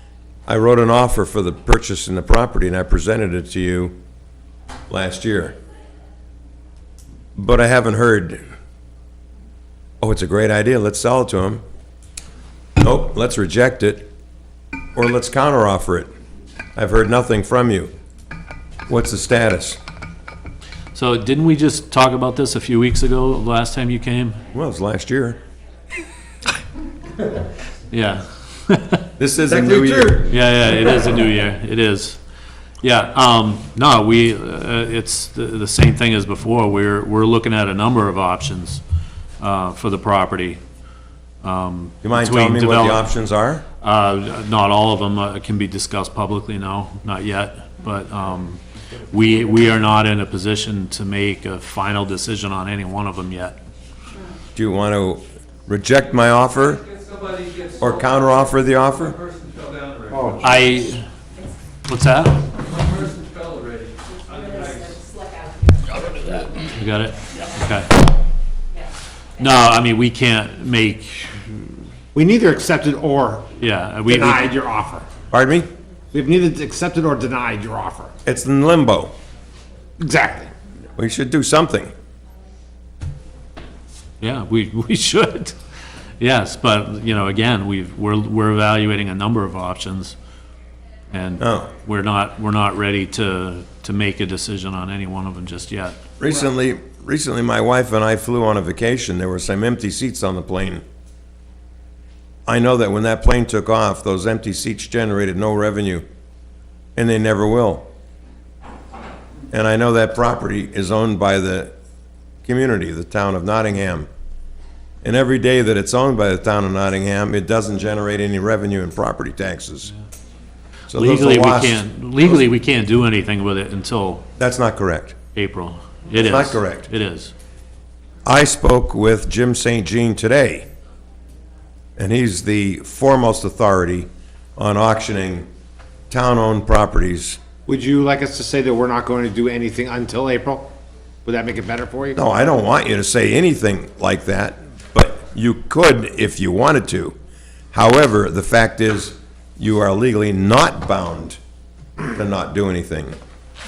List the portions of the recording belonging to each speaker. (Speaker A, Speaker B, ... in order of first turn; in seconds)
Speaker A: 0.5-4.0, 4.9-5.5, 7.3-8.4, 10.0-11.6, 12.8-14.1, 14.9-16.1, 16.8-17.9, 18.9-19.8, 24.5-25.4, 29.2-30.2, 42.0-43.6, 54.5-56.8, 57.8-59.2, 75.3-75.7, 78.2-79.1, 81.0-81.9, 91.4-91.7, 96.2-100.8, 102.5-106.0, 107.0-107.9, 109.5-111.7, 112.5-114.1, 115.0-119.9, 120.9-122.4, 124.4-125.2, 126.2-126.9, 128.2-130.7, 132.0-135.5, 136.1-137.4, 142.2-147.2, 147.7-151.4, 152.1-153.2
Speaker B: 20.9-24.4, 27.9-29.0, 30.3-32.2, 32.8-38.8, 39.4-40.6, 41.4-43.1, 43.8-48.6, 49.1-53.6, 60.4-61.0, 61.9-62.4, 66.5-67.9, 69.4-71.8, 73.6-74.5, 84.2-85.5, 86.2-90.1, 91.1-96.0, 120.9-124.2, 125.3-127.3
Speaker C: 29.5-30.2, 72.1-73.5, 74.0-75.1, 76.1-78.1, 80.0-80.5, 137.7-140.7, 141.2-142.2
Speaker D: 57.2-57.7, 59.4-60.1, 63.0-65.0